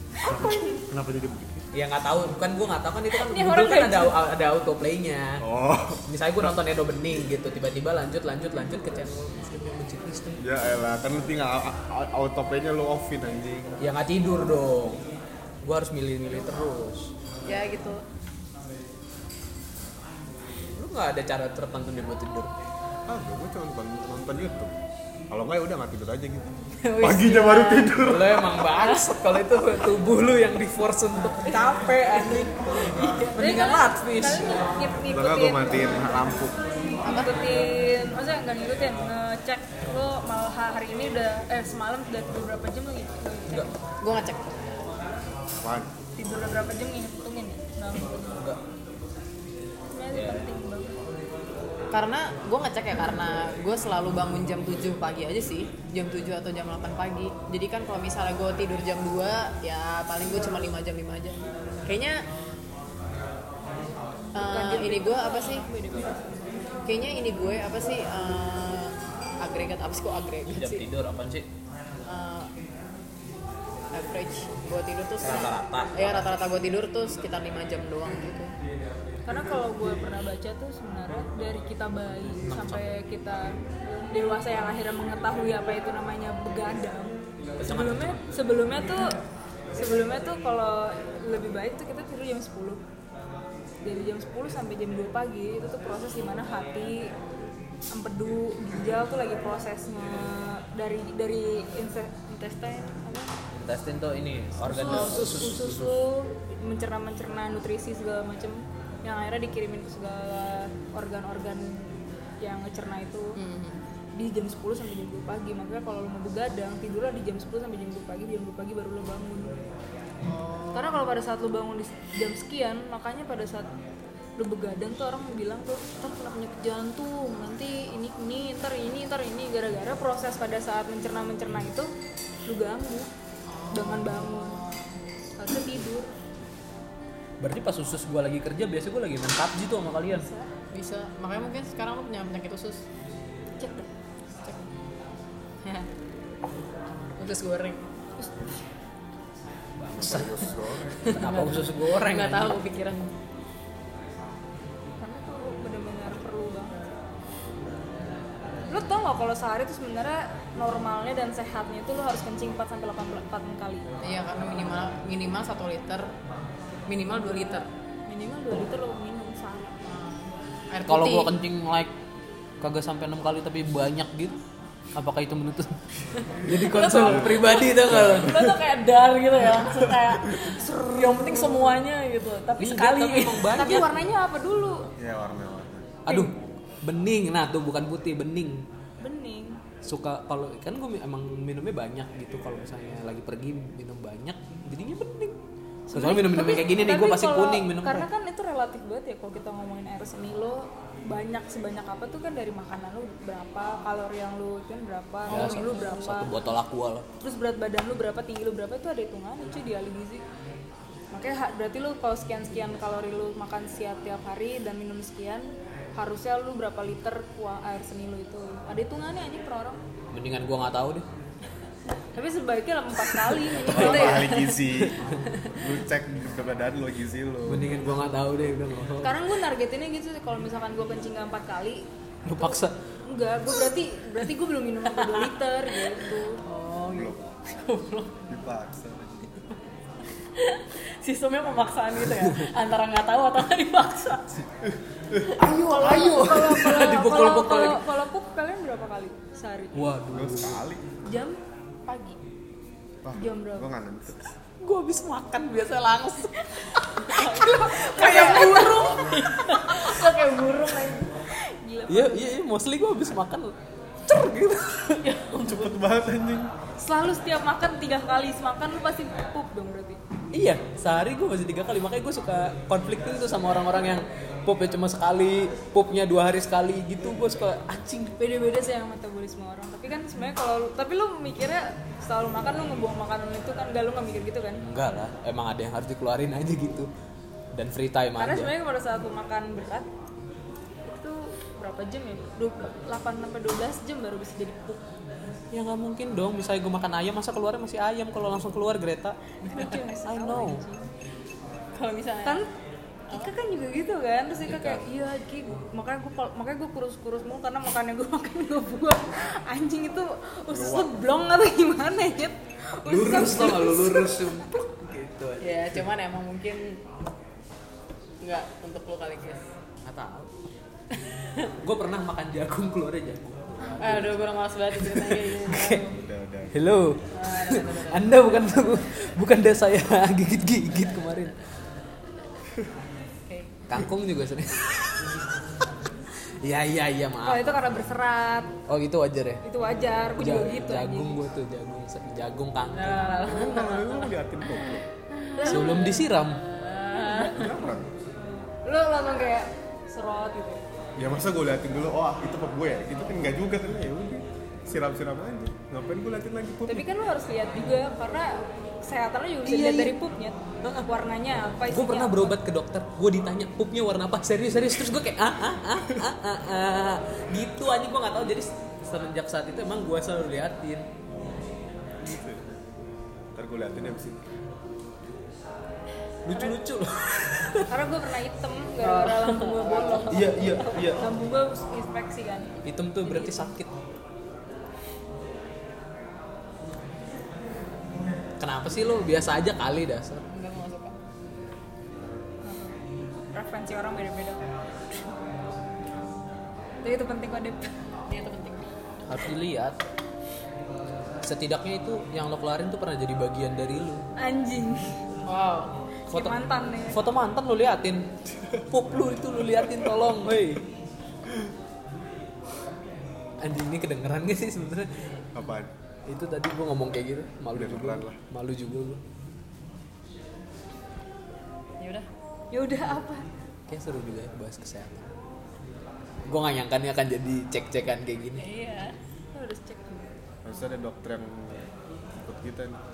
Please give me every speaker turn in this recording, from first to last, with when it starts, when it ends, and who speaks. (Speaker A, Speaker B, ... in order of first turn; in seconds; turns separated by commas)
Speaker A: 0.2-0.9, Speaker B: 0.2-1.7, Speaker C: 1.7-5.5, Speaker A: 3.1-4.2, Speaker B: 5.4-6.0, Speaker C: 6.1-10.4, Speaker B: 10.4-13.8, Speaker C: 13.8-15.0, Speaker C: 15.6-17.1, Speaker D: 17.5-18.0, Speaker C: 20.8-22.5, Speaker B: 23.1-24.7, Speaker B: 25.3-28.5, Speaker D: 26.8-28.0, Speaker C: 28.0-34.6, Speaker D: 28.7-29.1, Speaker D: 32.3-33.4, Speaker A: 33.4-36.2, Speaker B: 35.1-36.6, Speaker D: 37.0-37.3, Speaker A: 37.0-43.7, Speaker D: 44.0-44.8, Speaker B: 45.6-45.9, Speaker A: 46.2-48.4, Speaker A: 49.9-51.0, Speaker C: 50.1-50.5, Speaker D: 51.9-62.2, Speaker D: 64.3-65.7, Speaker A: 64.4-66.5, Speaker D: 66.9-70.8, Speaker C: 70.5-71.5, Speaker D: 72.1-72.5, Speaker D: 73.9-78.5, Speaker C: 75.2-76.3, Speaker A: 79.3-83.5, Speaker C: 82.4-82.8, Speaker A: 84.1-89.2, Speaker C: 87.6-88.2, Speaker A: 89.7-92.8, Speaker A: 93.8-97.1, Speaker A: 97.9-103.3, Speaker C: 103.5-106.0, Speaker A: 104.6-113.4, Speaker D: 113.4-113.8, Speaker A: 114.2-119.6, Speaker D: 120.3-121.0, Speaker A: 120.7-123.7, Speaker A: 124.4-131.9, Speaker A: 132.5-133.1, Speaker D: 133.5-134.8, Speaker A: 133.7-134.6, Speaker A: 135.4-136.1, Speaker C: 137.4-140.3, Speaker D: 140.7-142.8, Speaker A: 143.6-143.9, Speaker D: 145.6-145.9, Speaker D: 147.2-147.8, Speaker A: 148.2-148.5, Speaker C: 149.8-152.6, Speaker B: 149.9-151.1, Speaker D: 151.0-153.1, Speaker A: 155.0-156.9, Speaker A: 158.7-163.9, Speaker D: 164.0-166.1, Speaker D: 166.9-167.7, Speaker A: 168.1-169.8, Speaker D: 169.8-171.3, Speaker C: 170.9-171.9, Speaker C: 172.6-174.4, Speaker C: 174.9-175.8, Speaker C: 176.4-178.4, Speaker D: 176.4-183.6, Speaker B: 177.0-178.5, Speaker A: 180.6-181.8, Speaker C: 182.6-183.9, Speaker A: 183.5-184.9, Speaker B: 185.0-186.0, Speaker C: 186.1-188.7, Speaker A: 189.0-189.6, Speaker C: 189.8-195.4, Speaker A: 195.9-206.3, Speaker C: 195.9-198.1, Speaker C: 205.3-207.1, Speaker D: 205.3-205.6, Speaker A: 207.2-210.2, Speaker A: 211.1-219.8, Speaker C: 220.1-221.1, Speaker A: 222.1-224.5, Speaker C: 223.1-224.2, Speaker B: 223.6-225.0, Speaker D: 223.7-224.6, Speaker B: 225.5-227.8, Speaker C: 227.5-229.2, Speaker A: 229.0-236.4, Speaker C: 232.2-232.8, Speaker D: 234.9-238.2, Speaker B: 236.9-237.3, Speaker B: 238.3-239.3, Speaker D: 240.2-244.4, Speaker B: 244.6-245.3, Speaker D: 245.3-246.6, Speaker C: 245.4-247.8, Speaker A: 245.7-249.7, Speaker C: 249.7-250.6, Speaker B: 250.1-250.8, Speaker A: 251.1-252.2, Speaker B: 253.0-254.2, Speaker A: 253.2-253.7, Speaker C: 254.6-256.4, Speaker A: 257.0-259.2, Speaker D: 257.0-261.1, Speaker C: 257.6-258.9, Speaker A: 261.4-262.3, Speaker C: 261.9-263.5, Speaker C: 264.1-265.0, Speaker D: 265.0-265.8, Speaker B: 265.4-266.5, Speaker A: 266.8-270.0, Speaker C: 270.3-278.2, Speaker A: 278.2-284.6, Speaker C: 284.6-286.9, Speaker C: 287.5-288.5, Speaker A: 288.2-289.9, Speaker A: 290.9-294.9, Speaker C: 295.5-300.6, Speaker A: 299.5-300.9, Speaker D: 301.8-302.4, Speaker A: 302.2-302.5, Speaker A: 303.1-314.5, Speaker C: 304.4-304.9, Speaker B: 310.5-310.9, Speaker C: 312.9-315.8, Speaker D: 315.4-316.8, Speaker D: 318.2-319.4, Speaker C: 319.9-320.3, Speaker C: 321.5-324.2, Speaker D: 323.8-325.9, Speaker C: 324.8-325.9, Speaker B: 325.8-326.5, Speaker C: 326.5-331.4, Speaker D: 327.1-328.1, Speaker D: 333.3-333.6, Speaker C: 333.7-335.2, Speaker C: 336.4-337.9, Speaker A: 337.2-338.5, Speaker C: 338.7-339.4, Speaker A: 339.4-341.2, Speaker C: 340.2-343.3, Speaker D: 342.7-344.1, Speaker B: 343.2-344.8, Speaker D: 345.1-347.5, Speaker A: 345.4-346.1, Speaker C: 345.4-346.4, Speaker A: 347.0-347.5, Speaker B: 347.3-347.9, Speaker A: 348.6-350.6, Speaker B: 351.0-356.9, Speaker A: 356.7-362.4, Speaker C: 359.4-360.0, Speaker C: 360.6-360.9, Speaker C: 361.5-370.9, Speaker B: 372.0-372.4, Speaker B: 373.4-374.2, Speaker C: 376.3-377.7, Speaker A: 377.7-383.5, Speaker D: 378.8-380.9, Speaker B: 380.1-381.0, Speaker C: 380.2-380.6, Speaker C: 382.6-383.7, Speaker C: 388.4-390.2, Speaker D: 390.3-391.0, Speaker A: 392.4-392.8, Speaker A: 393.3-394.4, Speaker A: 396.8-397.7, Speaker D: 398.1-398.7, Speaker C: 399.1-399.8, Speaker C: 401.2-404.0, Speaker A: 404.2-405.0, Speaker D: 405.3-405.7, Speaker A: 406.1-407.0, Speaker C: 406.1-408.1, Speaker C: 408.7-410.6, Speaker C: 413.4-414.9, Speaker B: 415.4-415.7, Speaker C: 416.1-419.0, Speaker B: 417.5-418.2, Speaker D: 421.8-422.1, Speaker A: 422.5-423.3, Speaker C: 423.7-425.1, Speaker C: 426.3-428.4, Speaker D: 428.4-428.9, Speaker A: 429.3-430.1, Speaker B: 430.4-432.8